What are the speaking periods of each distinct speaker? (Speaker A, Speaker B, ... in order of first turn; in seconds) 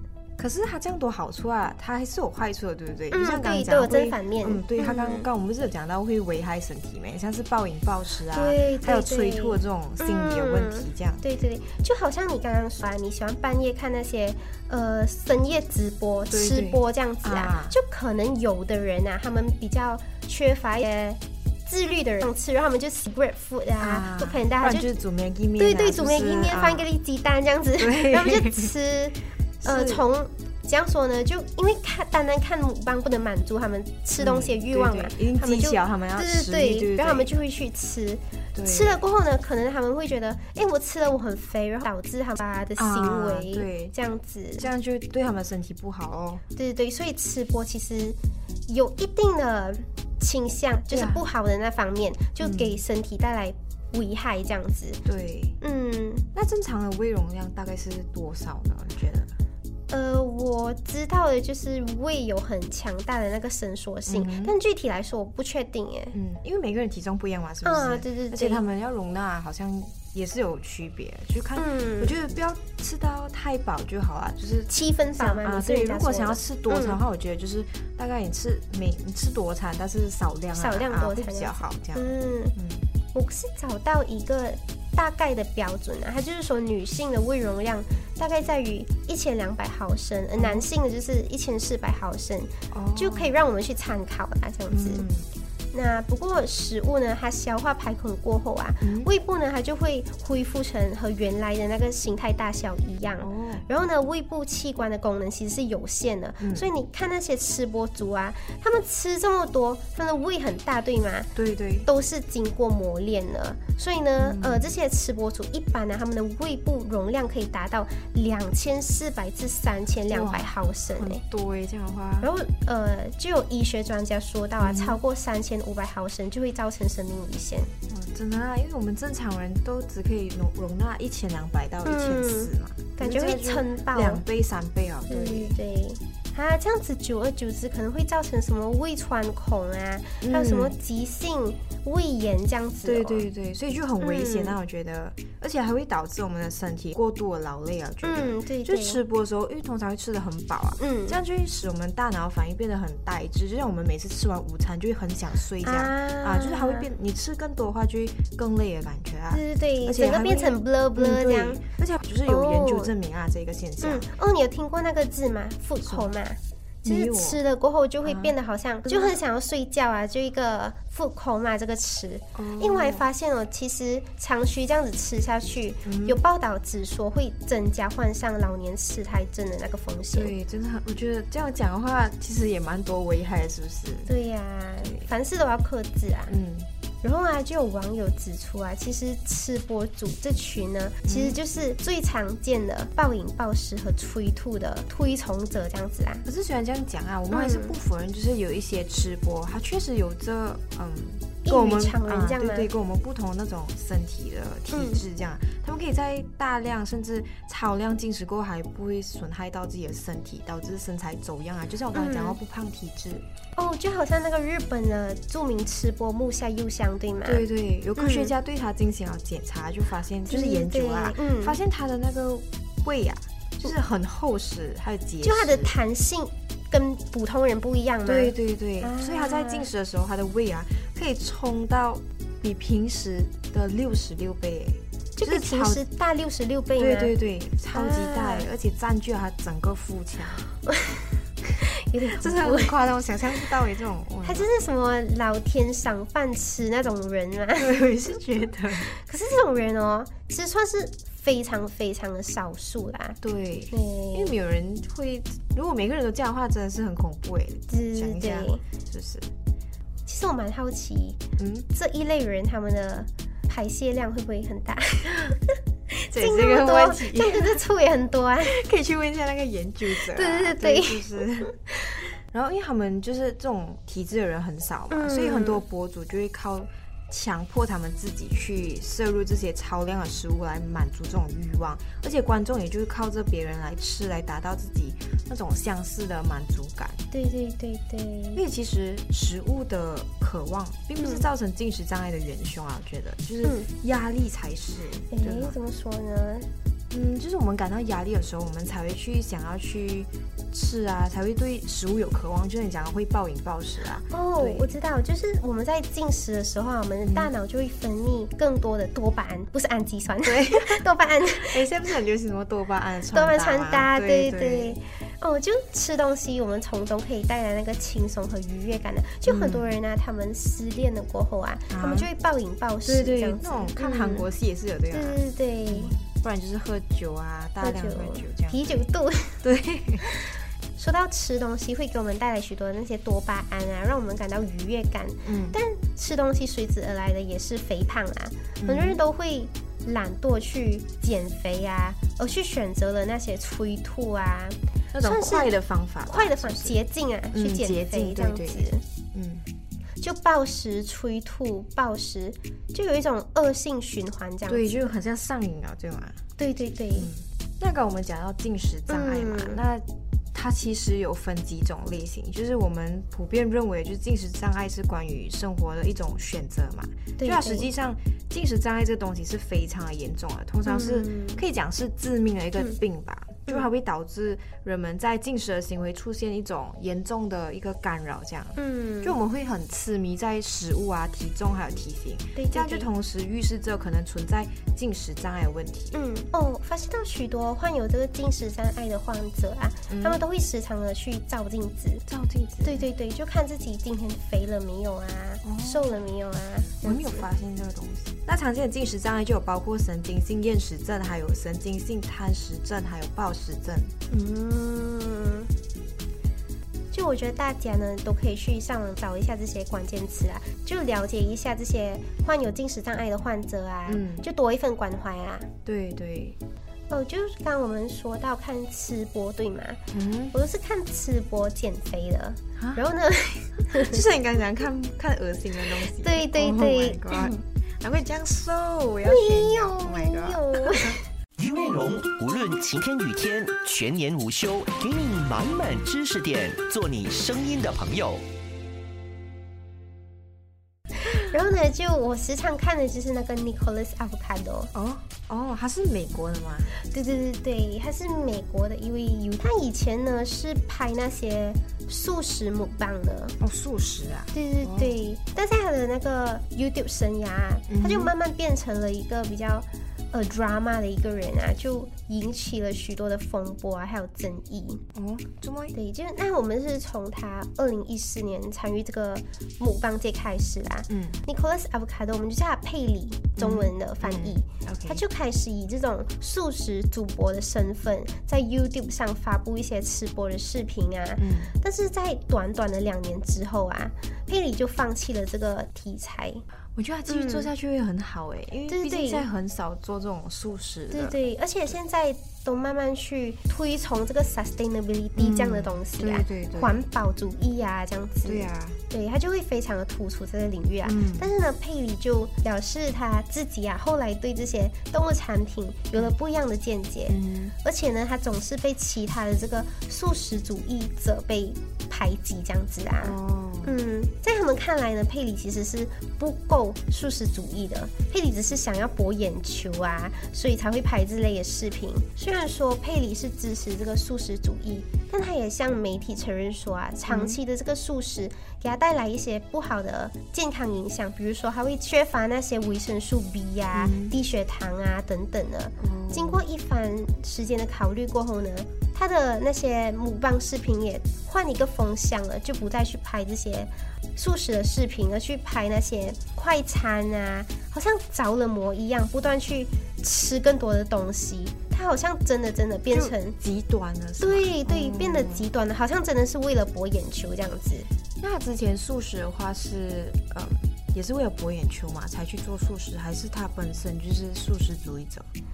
Speaker A: 0.4-11.2, 16.3-17.7, 23.8-26.9, 27.8-28.7, 29.6-30.0, 34.2-37.3, 38.5-39.0, 42.8-43.9, 44.6-46.4, 50.9-51.2, 52.4-52.8, 55.0-55.6, 56.3-59.3, 64.1-64.5, 66.1-82.8, 90.4-90.7, 92.7-93.3, 94.7-95.3, 98.8-99.1, 103.2-103.6, 106.4-106.7, 111.3-111.9, 114.2-114.7, 120.1-122.3, 124.6-125.0, 127.9-135.6, 140.2-140.7, 142.8-164.1, 165.8-166.1, 166.8-167.4, 168.0-168.3, 168.9-169.2, 172.3-173.0, 175.8-176.2, 180.1-184.1, 186.3-186.7, 191.0-191.4, 196.2-213.2, 217.2-225.7, 228.0-235.8, 236.8-240.4, 242.1-244.5, 247.6-248.9, 253.2-259.3, 261.4-261.7, 266.1-267.6, 268.4-271.5, 272.3-287.0, 288.4-295.5, 296.9-304.7, 307.0-307.3, 310.2-314.8, 319.2-319.7, 321.7-322.1, 322.8-328.8, 329.4-330.1, 335.2-335.6, 338.6-339.0, 344.9-346.8, 347.3-349.4, 354.5-356.2, 356.9-385.9, 389.9-390.2, 392.1-392.9, 395.4-396.0, 396.8-403.9, 413.9-414.3, 415.6-416.4, 419.9-420.3, 422.6-422.8, 423.7-431.0, 444.7-446.7, 453.4-454.9, 457.7-458.1, 464.9-465.8, 470.9-471.2, 473.4-475.0, 481.2-481.5, 486.7-491.2, 495.1-496.8, 498.2-498.8, 500.8-501.3, 507.1-507.5, 513.0-513.8, 527.1-527.4, 533.7-534.1, 535.8-536.4, 552.9-555.5, 558.2-565.3
Speaker B: 3.1-5.3, 8.3-24.9, 25.6-44.7, 46.5-48.2, 48.7-55.0, 55.6-56.2, 59.9-66.1, 67.6-68.6, 71.5-72.1, 74.7-77.0, 80.5-82.5, 83.1-95.0, 95.7-111.3, 111.8-121.2, 122.2-127.7, 131.8-134.2, 135.1-143.2, 144.0-144.5, 148.0-149.0, 150.8-151.2, 155.6-156.9, 159.3-161.6, 162.2-162.9, 163.8-180.3, 184.1-186.3, 187.0-196.2, 197.3-197.7, 201.4-202.7, 204.7-205.0, 211.9-212.4, 213.6-217.4, 218.0-218.3, 220.3-221.6, 225.2-229.7, 235.2-237.1, 237.7-238.5, 240.6-242.7, 244.2-247.8, 248.9-253.2, 253.7-254.3, 257.7-258.6, 260.1-268.6, 269.9-271.5, 274.9-275.6, 287.1-288.4, 291.0-291.2, 295.1-296.5, 304.1-311.6, 313.1-324.3, 324.9-325.9, 327.6-329.4, 330.0-345.5, 346.1-348.8, 350.0-354.8, 356.4-357.1, 358.9-359.6, 367.2-367.7, 370.6-371.4, 378.6-379.2, 382.4-382.9, 385.9-392.1, 392.6-397.2, 404.1-405.5, 406.9-415.5, 416.9-419.8, 420.3-424.0, 425.9-427.3, 429.0-431.0, 441.0-444.7, 446.7-453.4, 454.3-464.8, 465.7-486.4, 487.1-487.5, 488.7-489.3, 490.9-553.4, 554.2-557.9
Speaker C: 431.4-438.2